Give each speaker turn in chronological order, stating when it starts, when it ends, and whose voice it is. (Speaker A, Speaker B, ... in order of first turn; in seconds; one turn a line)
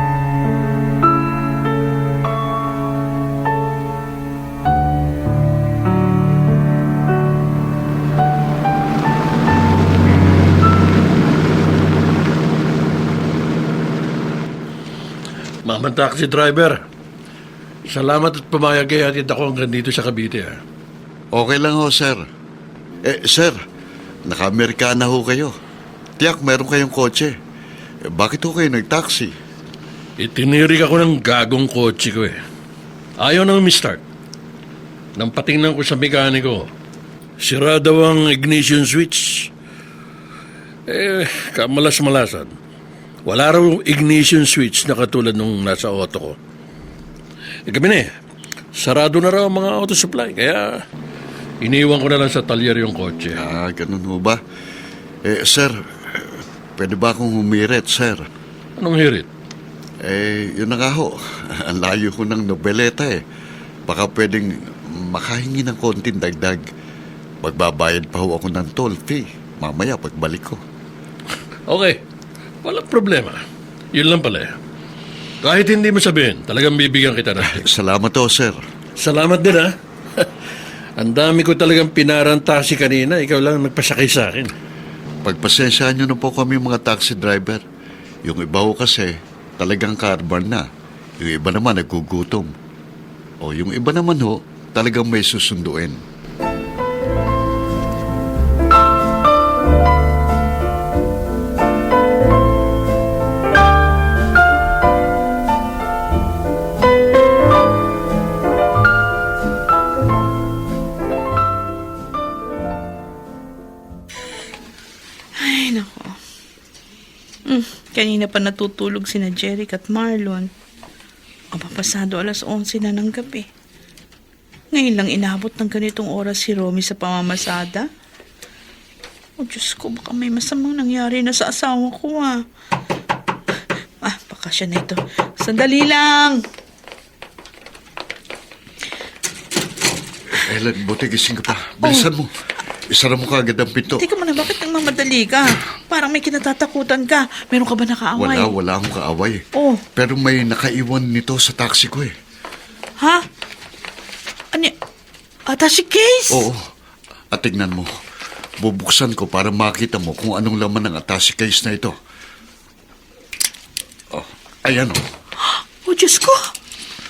Speaker A: 15.7-16.8
Speaker A: 17.9-20.6
Speaker B: 21.3-22.2
Speaker B: 23.1-23.6
Speaker B: 24.3-25.5
Speaker B: 26.2-27.3
Speaker B: 28.1-29.3
Speaker A: 30.2-32.4
Speaker A: 33.2-34.0
Speaker A: 35.2-36.7
Speaker A: 37.4-39.5
Speaker A: 40.9-42.5
Speaker A: 43.3-46.4
Speaker A: 47.7-48.1
Speaker A: 48.8-50.8
Speaker A: 51.6-53.4
Speaker B: 53.3-54.4
Speaker B: 55.3-58.2
Speaker A: 58.8-59.3
Speaker B: 60.0-61.1
Speaker B: 61.7-63.1
Speaker B: 63.9-64.5
Speaker B: 65.0-66.6
Speaker B: 67.4-70.6
Speaker A: 71.7-72.0
Speaker A: 72.6-73.4
Speaker A: 73.9-74.5
Speaker A: 75.4-77.6
Speaker B: 77.4-78.6
Speaker A: 79.0-79.7
Speaker A: 81.0-84.5
Speaker B: 85.2-87.6
Speaker B: 88.2-90.6
Speaker B: 91.2-92.5
Speaker B: 93.4-96.0
Speaker C: 115.4-116.1
Speaker C: 117.5-120.5
Speaker C: 121.5-123.5
Speaker C: 124.7-127.8
Speaker C: 129.4-132.4
Speaker C: 134.0-136.4
Speaker B: 140.4-142.3
Speaker B: 142.9-144.0
Speaker C: 144.0-148.5
Speaker B: 148.2-149.4
Speaker C: 149.6-149.8
Speaker B: 149.9-152.1
Speaker C: 155.5-156.4
Speaker B: 156.3-156.6
Speaker B: 157.3-157.9
Speaker B: 158.6-161.9
Speaker B: 164.1-165.0
Speaker C: 165.8-166.4